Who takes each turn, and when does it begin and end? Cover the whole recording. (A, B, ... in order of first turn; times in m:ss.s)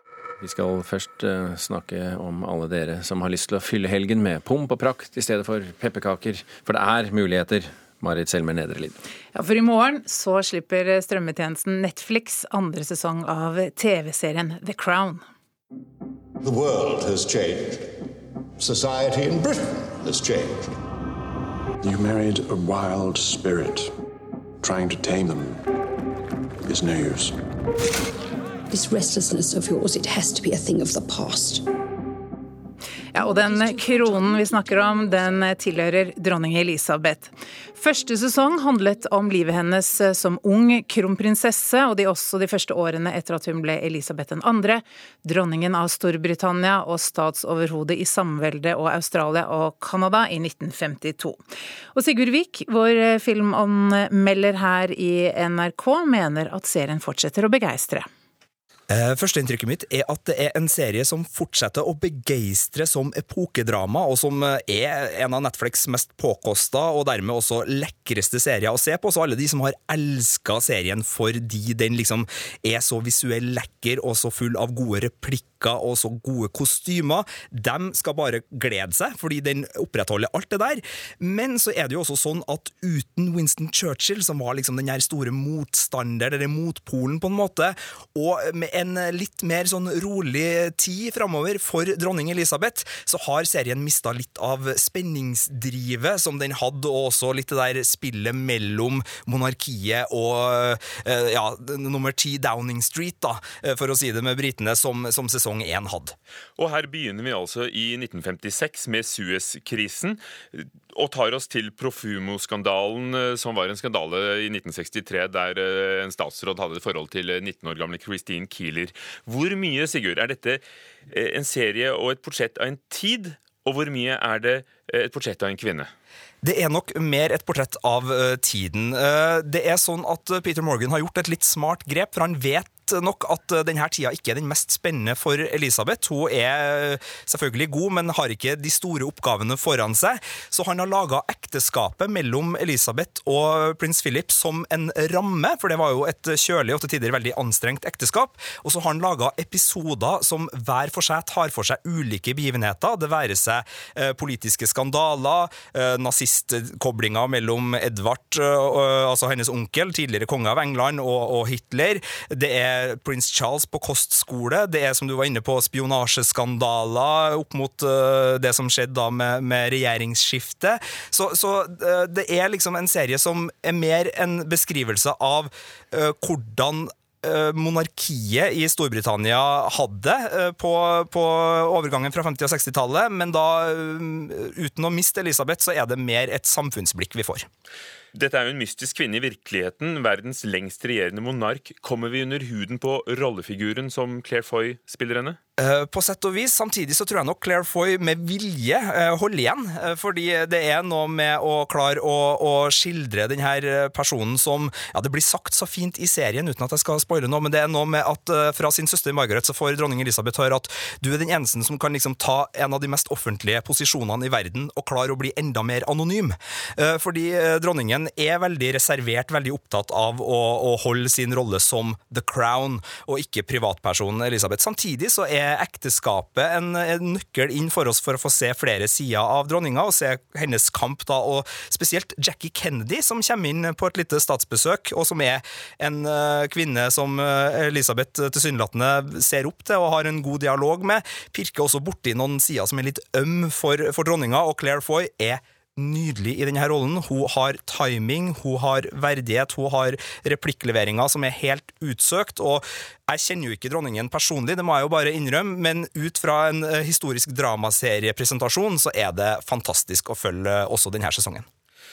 0:00.4-0:08.9 A
0:09.3-0:15.2 B
0:16.5-0:17.8 C
0:18.7-0:19.5 C
0:20.1-0:20.4 C
0:21.8-0:23.9 D
0:24.6-0:25.6 D
0:26.6-0:27.4 D
0:28.7-0:31.7 E
0:33.1-0:51.4 B
0:33.8-0:34.2 E
0:51.9-0:58.1 B
0:58.9-1:46.2 F
1:46.6-2:05.9 G
2:06.4-3:07.5 F
3:08.1-3:15.4 G
3:15.6-4:21.5 F